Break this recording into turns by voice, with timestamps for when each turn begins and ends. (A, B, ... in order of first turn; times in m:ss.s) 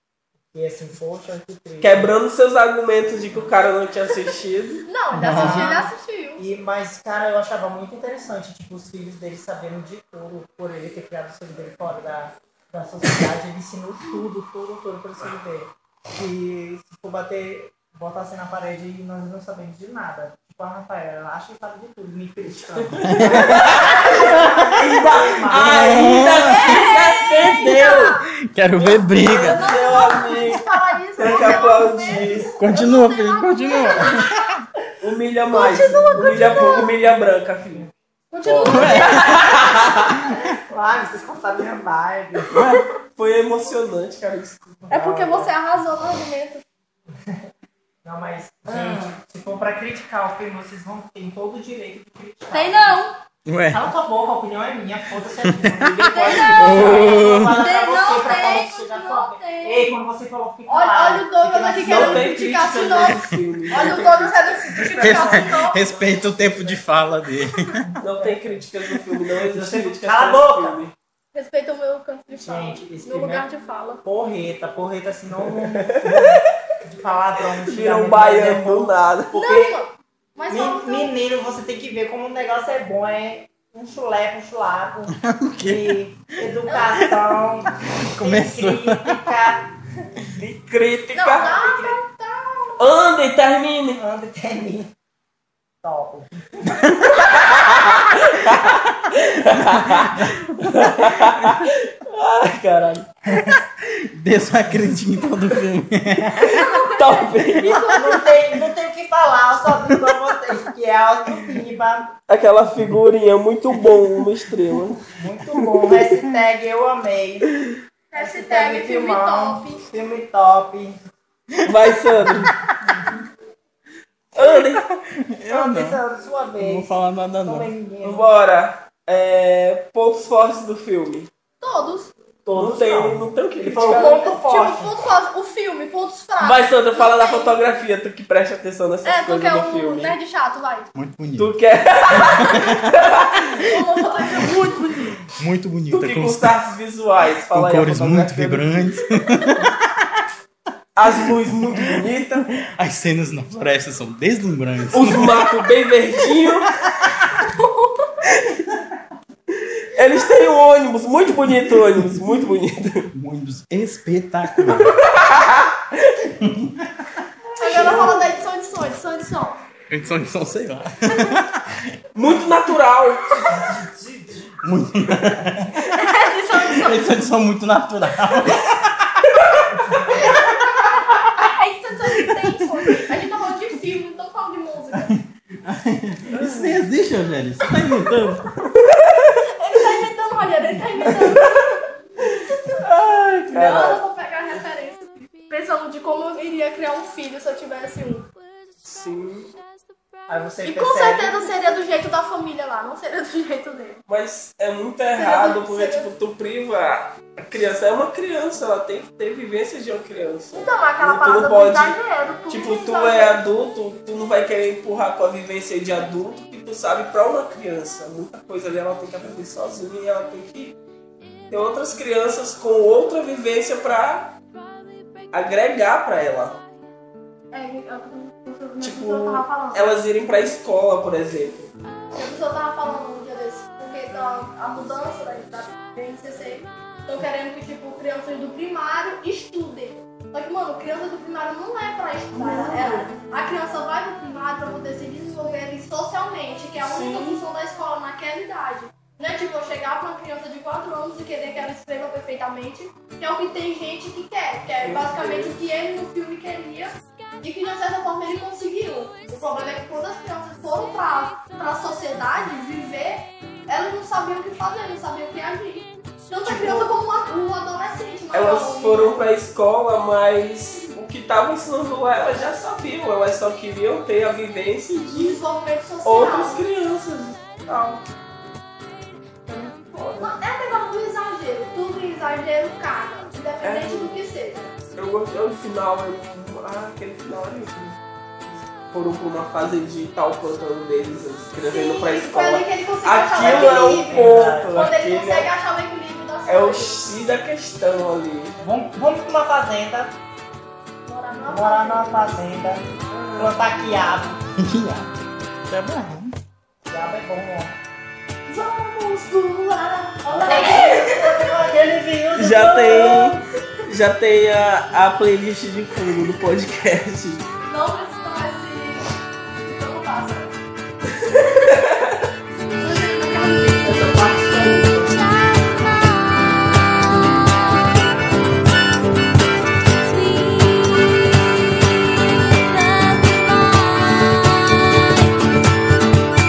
0:00.5-0:02.1 A
0:01.8-0:04.8 B
0:04.8-0:06.4 C
0:05.1-0:05.7 D
0:05.2-0:26.0 A
0:22.7-0:28.1 B
0:23.0-0:24.8 D
0:25.5-0:26.9 D
0:26.4-0:28.2 C
0:27.5-0:29.7 D
0:28.8-0:30.6 B
0:29.2-0:34.4 C
0:31.2-0:32.5 B
0:32.6-0:34.6 D
0:35.0-0:37.9 B
0:35.5-0:36.9 C
0:36.6-0:37.1 A
0:38.3-0:39.4 C
0:38.4-0:40.0 B
0:38.6-0:40.5 D
0:40.7-0:42.5 A
0:42.5-0:42.8 D
0:43.2-0:45.5 B
0:44.9-0:46.6 C
0:48.0-0:53.0 A
0:48.7-0:49.0 D
0:52.5-0:53.2 C
0:53.5-0:53.9 D
0:53.7-1:02.3 A
0:55.4-0:57.6 D
0:55.8-0:57.4 B
0:56.0-0:56.9 C
0:57.6-0:59.9 C
1:00.6-1:05.9 C
1:01.8-1:05.0 B
1:04.7-1:06.8 A
1:05.0-1:07.9 D
1:07.9-1:08.7 A
1:08.0-1:10.9 B
1:09.5-1:10.8 A
1:11.3-1:14.0 C
1:12.4-1:13.5 A
1:14.0-1:19.8 A
1:15.5-1:16.4 B
1:17.6-1:19.7 B
1:19.3-1:21.1 C
1:20.5-1:29.7 A
1:25.2-1:26.0 D
1:28.0-1:29.4 D
1:30.4-1:31.6 B
1:31.1-1:32.8 C
1:31.4-1:31.9 A
1:32.8-1:34.0 B
1:34.0-1:34.9 A
1:35.8-1:37.2 A
1:36.9-1:43.1 B
1:39.6-1:41.6 D
1:43.4-1:46.7 D
1:46.4-1:48.2 C
1:47.0-1:47.9 B
1:47.6-1:52.1 A
1:52.3-1:55.0 B
1:55.1-1:57.4 A
1:55.7-1:56.0 B
1:58.1-1:59.8 C
1:58.1-2:01.0 A
2:01.6-2:02.5 B
2:02.3-2:02.7 D
2:04.3-2:04.8 B
2:04.4-2:06.0 D
2:05.5-2:08.2 A
2:06.6-2:07.7 D
2:08.0-2:11.3 B
2:11.6-2:12.1 C
2:12.4-2:14.3 B
2:12.6-2:13.2 D
2:13.6-2:15.0 A
2:14.0-2:17.6 C
2:16.4-2:20.2 B
2:19.0-2:20.9 C
2:20.9-2:21.5 D
2:21.4-2:23.4 B
2:22.2-2:22.8 D
2:23.6-2:25.2 C
2:25.4-2:26.5 D
2:25.9-2:28.9 B
2:27.5-2:30.2 D
2:31.0-2:32.5 B
2:32.7-2:35.5 D
2:34.9-2:36.7 B
2:36.6-2:37.2 D
2:37.4-2:38.2 C
2:38.3-2:38.6 B
2:39.9-2:43.0 B
2:43.1-2:45.0 D
2:44.7-2:46.3 B
2:46.4-2:46.9 D
2:47.6-2:49.6 C
2:47.6-2:48.2 B
2:49.9-2:51.9 D
2:52.1-2:53.4 B
2:53.4-2:53.8 C
2:53.5-2:54.5 A
2:54.6-2:56.0 D
2:55.9-2:57.1 C
2:56.5-2:59.9 D
3:00.1-3:05.1 C
3:05.0-3:08.5 D
3:08.7-3:09.3 B
3:09.5-3:11.8 C
3:11.1-3:11.4 B
3:12.7-3:14.0 B
3:13.5-3:18.3 C
3:18.8-3:19.5 B
3:20.3-3:21.6 A
3:20.6-3:24.0 C
3:24.1-3:32.0 B
3:25.1-3:26.1 C
3:30.6-3:33.4 C
3:32.5-3:40.8 B
3:41.5-3:44.4 B
3:45.3-3:46.6 B
3:47.5-3:49.8 C
3:48.8-3:51.7 B
3:52.1-4:29.3 C
4:02.3-4:03.1 B
4:06.8-4:07.4 B
4:14.8-4:15.5 B
4:26.4-4:26.9 B
4:28.3-4:35.4 B
4:35.1-4:36.6 C
4:36.0-4:38.0 B
4:39.5-4:40.4 B
4:40.2-4:44.7 C
4:43.6-4:44.2 B
4:45.0-4:48.0 B
4:48.9-4:55.5 B
4:51.6-4:57.3 C
4:53.3-4:54.8 A
4:56.5-4:58.6 B
4:58.6-5:00.1 A
5:01.0-5:02.4 C
5:01.5-5:02.8 A
5:03.1-5:03.6 B
5:03.4-5:04.4 A
5:04.6-5:05.1 D
5:05.7-5:06.3 D
5:06.9-5:07.7 A
5:08.4-5:11.5 C
5:10.3-5:13.4 A
5:12.3-5:17.4 B
5:13.1-5:13.4 C
5:17.6-5:20.5 C
5:22.8-5:24.9 C
5:23.8-5:25.2 B